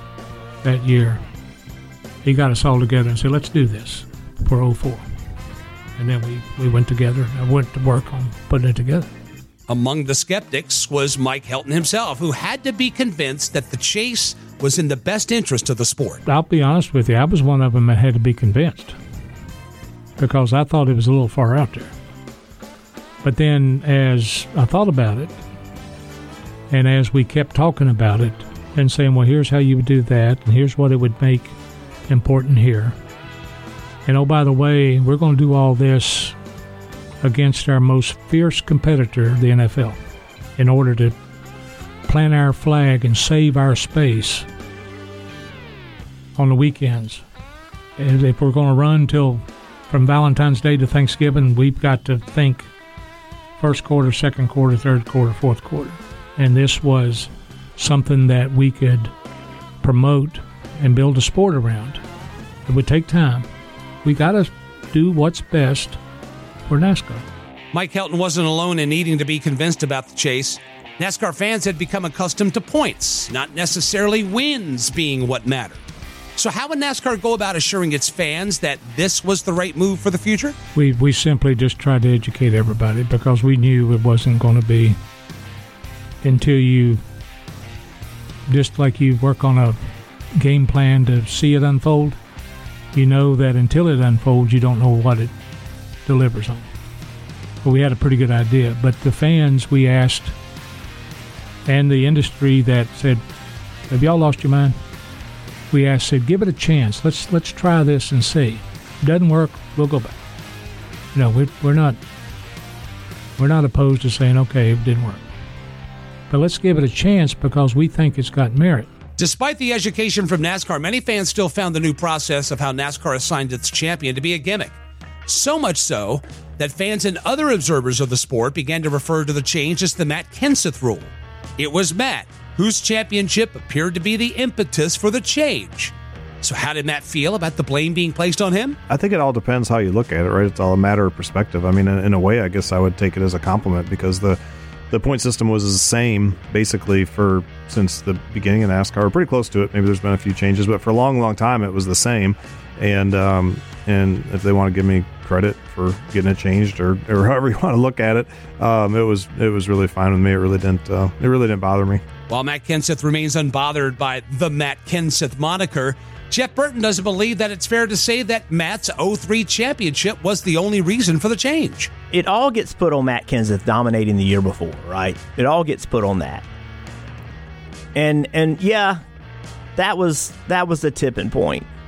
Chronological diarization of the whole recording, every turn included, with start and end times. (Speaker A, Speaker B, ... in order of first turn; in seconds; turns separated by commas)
Speaker A: 0.6-1.2, Speaker A: 2.2-5.0, Speaker A: 6.0-9.1, Speaker B: 9.7-16.2, Speaker A: 16.2-18.9, Speaker A: 20.2-21.9, Speaker A: 23.2-25.4, Speaker A: 26.7-31.5, Speaker A: 32.1-33.0, Speaker A: 34.0-36.4, Speaker A: 37.2-40.0, Speaker A: 40.6-41.1, Speaker A: 42.1-44.5, Speaker A: 46.4-47.2, Speaker A: 48.0-52.7, Speaker A: 53.6-59.1, Speaker A: 59.8-62.0, Speaker A: 62.6-63.5, Speaker A: 64.0-66.0, Speaker A: 66.7-67.2, Speaker B: 67.7-75.8, Speaker B: 76.3-80.5, Speaker A: 80.7-85.0, Speaker A: 86.2-87.0, Speaker A: 88.5-92.2, Speaker A: 92.9-95.3, Speaker A: 96.0-96.7, Speaker A: 97.6-100.3, Speaker A: 101.7-103.2, Speaker A: 103.9-104.8, Speaker A: 105.7-110.2, Speaker A: 111.1-112.0, Speaker A: 113.4-115.2, Speaker A: 116.3-118.9, Speaker B: 119.2-124.7, Speaker B: 125.3-138.8, Speaker C: 138.9-162.0, Speaker B: 162.3-171.9, Speaker D: 172.1-176.4, Speaker D: 177.9-179.0, Speaker D: 179.8-181.7